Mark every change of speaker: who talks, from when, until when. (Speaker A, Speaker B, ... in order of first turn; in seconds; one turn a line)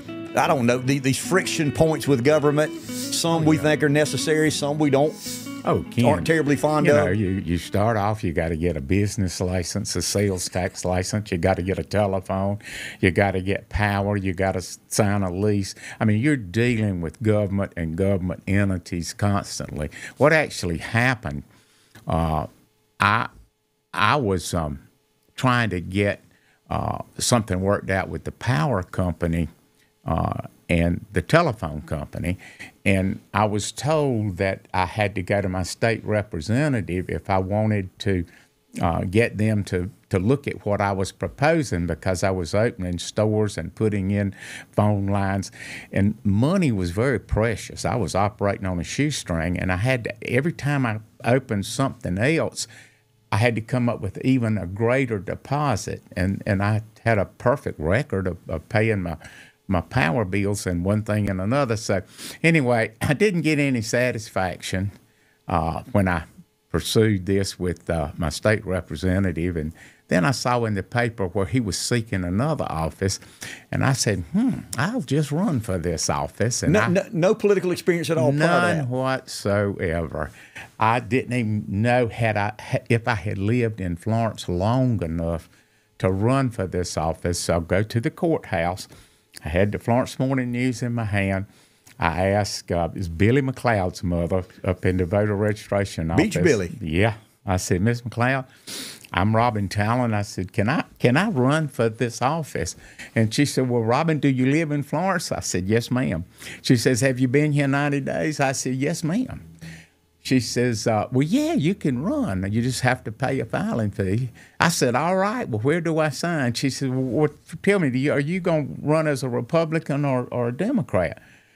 Speaker A: 0.3-5.2
Speaker B: 3.3-3.7
Speaker B: 5.6-21.4
Speaker A: 6.0-7.1
Speaker B: 22.1-22.5
Speaker B: 23.0-23.3
Speaker B: 23.9-24.8
Speaker B: 25.4-29.5
Speaker B: 30.1-38.2
Speaker B: 38.8-52.7
Speaker B: 53.3-64.9
Speaker B: 65.5-73.2
Speaker B: 73.7-77.0
Speaker A: 76.7-78.9
Speaker B: 78.2-88.9
Speaker B: 89.4-91.5
Speaker B: 92.0-109.4
Speaker A: 96.1-96.7
Speaker B: 110.2-121.2